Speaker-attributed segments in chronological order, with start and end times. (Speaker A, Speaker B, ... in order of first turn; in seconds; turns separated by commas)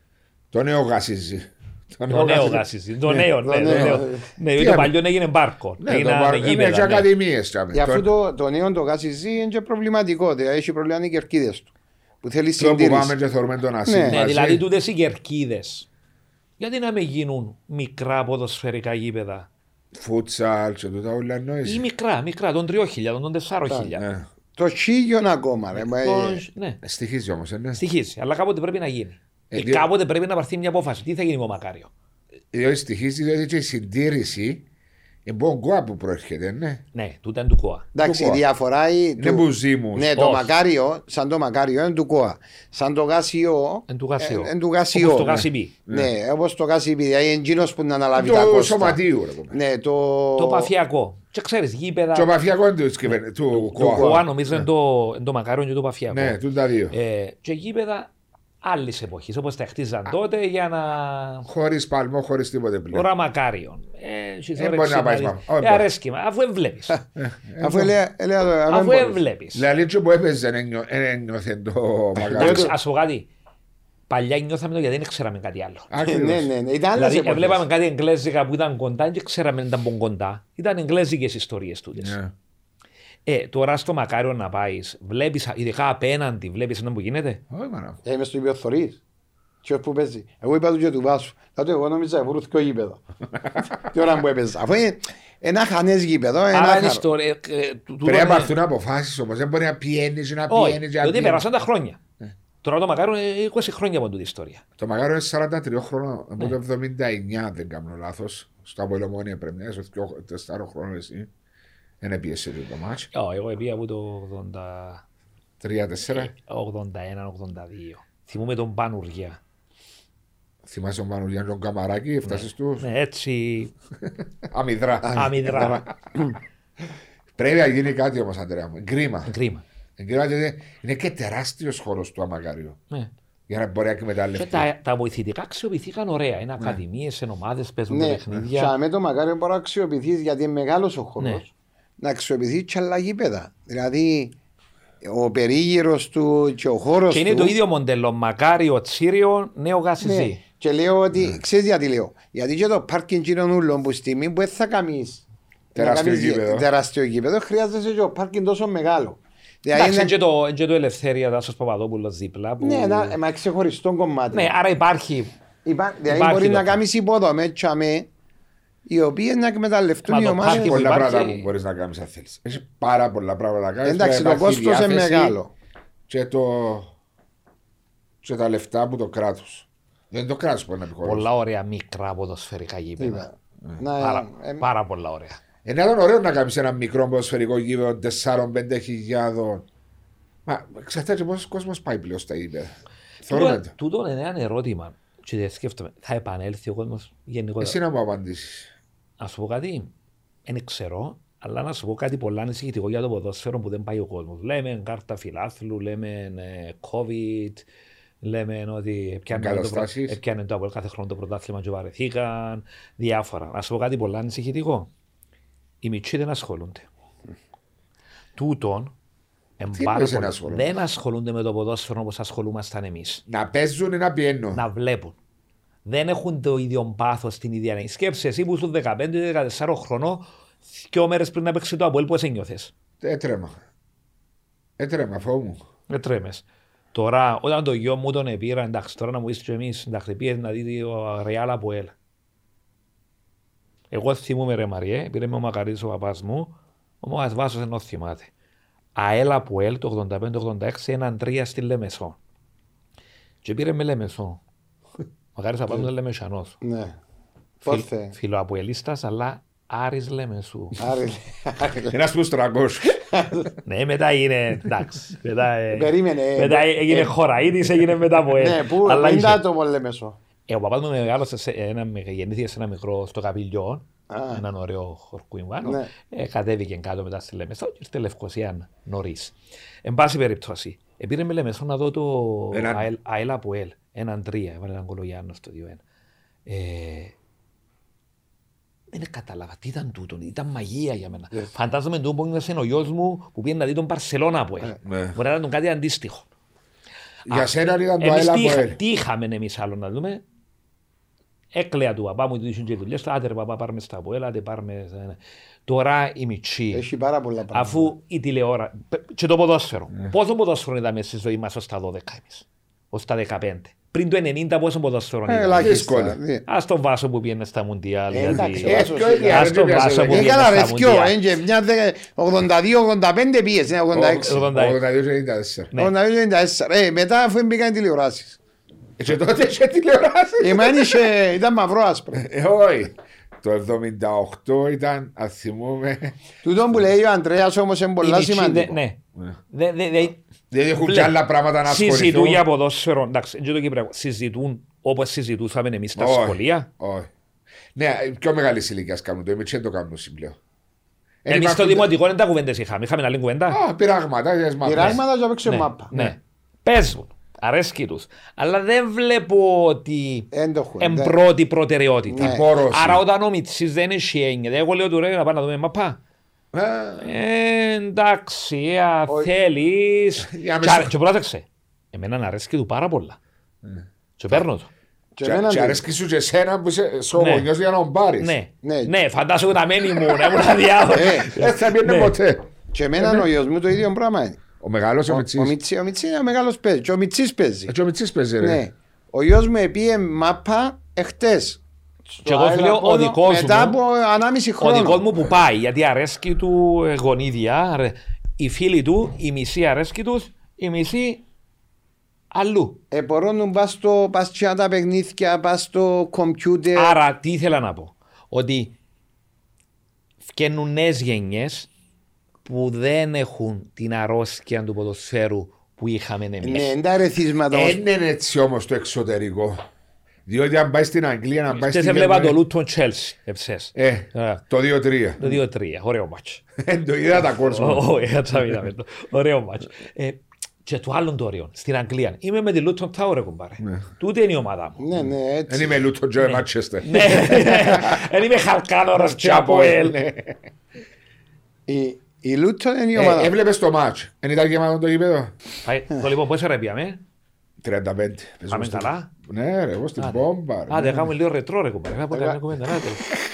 Speaker A: 0.5-4.0, Speaker B: 2.1-7.1, Speaker C: 3.4-4.3, Speaker A: 4.6-4.9, Speaker A: 5.8-8.1, Speaker C: 7.7-11.7, Speaker C: 12.2-13.2, Speaker A: 12.6-14.7, Speaker C: 13.9-14.2, Speaker B: 14.1-15.9, Speaker B: 16.6-19.5, Speaker A: 19.9-21.9, Speaker B: 21.6-24.1, Speaker A: 24.0-24.3, Speaker C: 24.6-26.4, Speaker B: 25.7-26.8, Speaker A: 26.8-27.8, Speaker B: 27.8-31.9, Speaker A: 29.5-29.9, Speaker A: 32.5-34.6, Speaker A: 35.3-36.8, Speaker B: 36.9-37.9, Speaker C: 38.0-49.0, Speaker A: 38.0-38.4, Speaker A: 39.2-40.1, Speaker B: 40.2-40.5, Speaker B: 43.9-45.7, Speaker A: 45.2-46.1, Speaker A: 48.2-49.6, Speaker C: 49.5-50.7, Speaker B: 50.4-52.3, Speaker A: 52.1-54.6, Speaker B: 53.5-56.4, Speaker A: 56.1-57.0, Speaker B: 56.9-58.1, Speaker B: 58.6-61.5, Speaker A: 61.5-63.1, Speaker B: 62.9-67.0, Speaker A: 64.6-65.9, Speaker A: 67.2-68.0, Speaker C: 67.6-69.2, Speaker B: 68.7-69.6, Speaker A: 69.5-72.7, Speaker C: 72.2-72.7, Speaker B: 72.3-73.3, Speaker B: 74.1-75.9, Speaker A: 75.9-76.5, Speaker C: 76.0-77.6, Speaker B: 77.0-82.2, Speaker A: 82.0-82.3, Speaker B: 83.3-87.4, Speaker A: 87.5-88.0, Speaker C: 88.0-89.0, Speaker C: 89.6-93.0, Speaker C: 93.8-97.0, Speaker B: 96.5-98.5, Speaker A: 98.0-101.5, Speaker B: 100.5-102.0, Speaker B: 102.6-104.6, Speaker A: 104.8-111.3, Speaker A: 112.0-113.1, Speaker B: 113.1-115.0, Speaker A: 115.6-116.3, Speaker B: 116.1-119.4, Speaker A: 120.7-122.9, Speaker B: 122.3-123.7, Speaker A: 124.4-125.7, Speaker C: 125.0-126.4, Speaker B: 125.1-125.8, Speaker A: 127.3-129.3, Speaker B: 129.3-129.6, Speaker A: 130.0-132.8, Speaker A: 133.5-134.7, Speaker B: 134.3-138.7, Speaker C: 137.9-144.3, Speaker C: 145.0-147.6, Speaker B: 147.1-150.4, Speaker C: 150.0-155.2, Speaker A: 155.8-156.7, Speaker C: 155.8-160.2, Speaker B: 159.7-163.2, Speaker C: 162.6-164.5, Speaker B: 164.3-165.3, Speaker C: 165.7-168.1, Speaker B: 166.1-166.8, Speaker C: 168.9-170.8, Speaker B: 170.1-171.5, Speaker A: 170.4-175.4, Speaker C: 173.8-175.5, Speaker A: 176.1-176.9, Speaker A: 178.2-181.3, Speaker B: 181.0-183.3, Speaker C: 183.0-184.7, Speaker B: 184.0-185.4, Speaker A: 185.7-189.7, Speaker A: 190.5-193.7, Speaker B: 193.3-197.8, Speaker A: 197.6-198.7, Speaker B: 199.2-199.9, Speaker B: 200.5-207.7, Speaker B: 208.2-214.9, Speaker A: 209.3-210.2, Speaker B: 215.8-216.9, Speaker B: 218.3-218.9, Speaker B: 219.6-223.2, Speaker A: 219.7-220.7, Speaker A: 223.3-224.6, Speaker B: 224.6-225.2, Speaker B: 225.8-232.7, Speaker A: 233.0-233.6, Speaker A: 234.8-235.6, Speaker B: 235.9-241.9, Speaker B: 243.9-248.3, Speaker B: 248.9-252.2, Speaker B: 253.4-254.4, Speaker B: 255.3-256.6, Speaker C: 256.6-257.0, Speaker B: 257.6-260.9, Speaker C: 257.6-258.1, Speaker C: 260.8-261.9, Speaker A: 261.9-263.0, Speaker C: 263.1-263.5, Speaker B: 263.6-269.4, Speaker C: 265.7-267.1, Speaker C: 268.3-270.2, Speaker B: 270.5-285.8, Speaker C: 274.1-274.4, Speaker C: 275.6-275.9, Speaker A: 282.5-282.9, Speaker B: 286.5-287.1, Speaker B: 288.9-296.3, Speaker A: 294.8-295.2, Speaker A: 297.3-298.8, Speaker B: 297.3-300.2, Speaker B: 301.5-306.9, Speaker C: 306.7-307.9, Speaker B: 307.5-315.9, Speaker C: 315.3-316.4, Speaker A: 315.6-316.2, Speaker B: 316.4-321.2, Speaker C: 318.1-319.5, Speaker A: 318.6-320.4, Speaker C: 320.1-324.4, Speaker A: 323.9-325.7, Speaker B: 324.2-324.8, Speaker C: 325.8-328.4, Speaker A: 329.0-331.1, Speaker C: 330.4-332.3, Speaker A: 332.1-336.2, Speaker C: 336.4-338.8, Speaker B: 338.0-340.2, Speaker A: 340.5-342.4, Speaker B: 340.8-346.7, Speaker A: 346.0-347.1, Speaker A: 347.8-350.4, Speaker A: 351.2-351.9, Speaker B: 351.3-353.6, Speaker A: 353.5-355.0, Speaker C: 354.6-355.9, Speaker B: 354.8-360.3, Speaker C: 360.3-361.2, Speaker B: 360.8-366.0, Speaker C: 362.1-362.5, Speaker A: 362.2-363.0, Speaker A: 366.5-367.1, Speaker B: 367.0-373.2, Speaker A: 370.2-370.9, Speaker A: 373.6-374.4, Speaker B: 374.2-374.7, Speaker C: 375.2-375.8, Speaker A: 375.2-378.3, Speaker B: 377.2-377.5, Speaker B: 378.2-382.2, Speaker C: 378.6-378.9, Speaker C: 380.9-381.3, Speaker A: 381.3-383.3, Speaker C: 382.7-384.4, Speaker A: 384.6-385.6, Speaker C: 385.1-387.7, Speaker A: 387.7-388.6, Speaker C: 388.4-395.0, Speaker B: 392.2-393.8, Speaker B: 394.6-401.2, Speaker B: 402.3-402.8, Speaker C: 402.9-407.0, Speaker B: 406.8-408.8, Speaker B: 410.3-411.7, Speaker B: 412.4-416.7, Speaker C: 416.4-417.8, Speaker A: 417.5-419.6, Speaker A: 420.3-422.4, Speaker B: 421.5-424.4, Speaker A: 423.8-425.2, Speaker B: 425.2-426.4, Speaker A: 426.6-427.9, Speaker B: 427.2-434.8, Speaker C: 434.8-435.8, Speaker A: 435.5-438.1, Speaker B: 436.2-440.0, Speaker A: 438.9-440.5, Speaker C: 441.7-443.3, Speaker A: 442.9-445.3, Speaker B: 445.6-447.0, Speaker A: 447.6-451.1, Speaker B: 448.5-449.1, Speaker B: 450.0-453.1, Speaker C: 452.1-452.4